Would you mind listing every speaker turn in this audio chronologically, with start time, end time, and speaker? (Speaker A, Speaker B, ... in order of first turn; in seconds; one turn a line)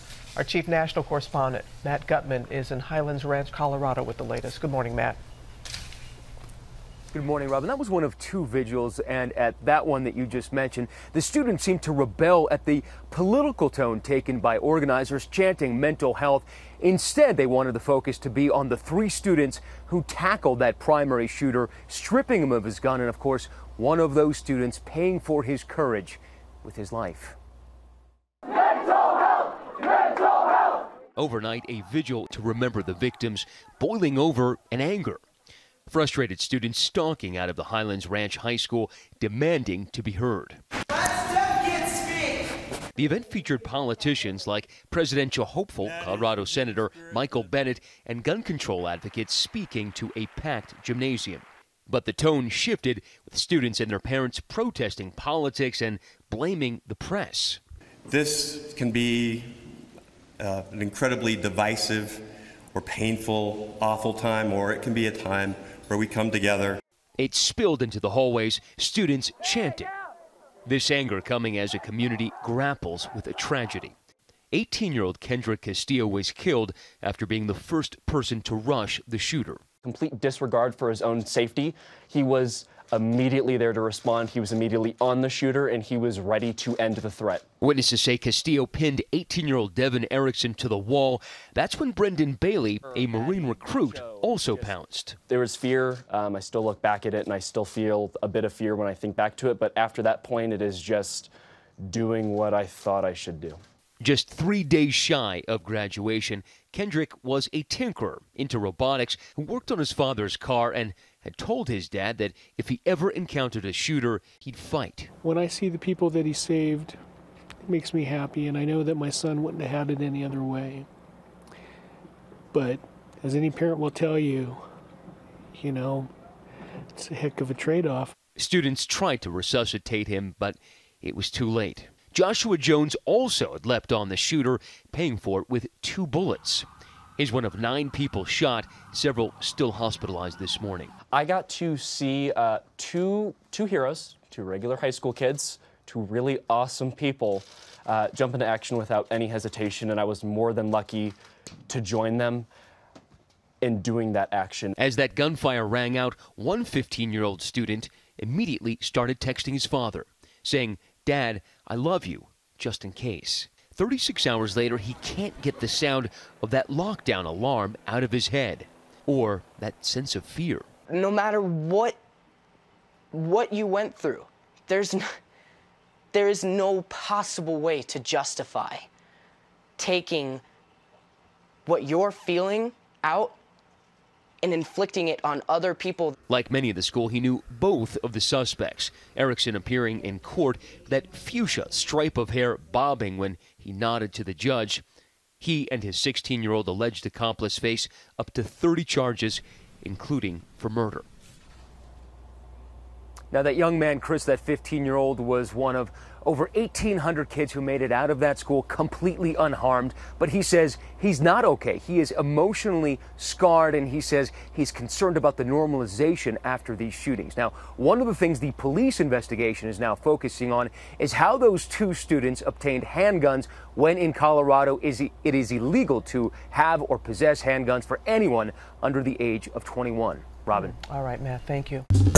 Speaker A: 0.4-5.2
Speaker B: 7.1-27.4
Speaker B: 31.2-35.2
Speaker B: 35.9-40.6
Speaker B: 43.0-57.6
Speaker C: 46.0-46.5
Speaker C: 58.1-59.6
Speaker C: 60.4-62.2
Speaker C: 62.7-66.8
Speaker B: 67.2-69.9
Speaker B: 70.7-73.9
Speaker B: 74.5-79.6
Speaker D: 79.8-87.4
Speaker B: 87.6-95.2
Speaker D: 92.8-101.3
Speaker D: 101.8-103.6
Speaker B: 104.0-115.1
Speaker E: 115.2-117.0
Speaker E: 117.6-120.9
Speaker E: 122.5-124.6
Speaker E: 125.5-126.1
Speaker E: 127.0-128.1
Speaker B: 128.4-136.7
Speaker B: 137.2-140.9
Speaker D: 141.1-151.2
Speaker D: 151.7-152.5
Speaker D: 153.6-154.7
Speaker B: 154.8-170.7
Speaker F: 170.9-172.0
Speaker F: 173.1-175.1
Speaker F: 176.1-178.9
Speaker F: 179.8-180.4
Speaker F: 181.7-183.4
Speaker F: 184.4-186.2
Speaker B: 186.3-194.8
Speaker B: 195.4-201.1
Speaker B: 203.3-230.8
Speaker A: 230.5-231.9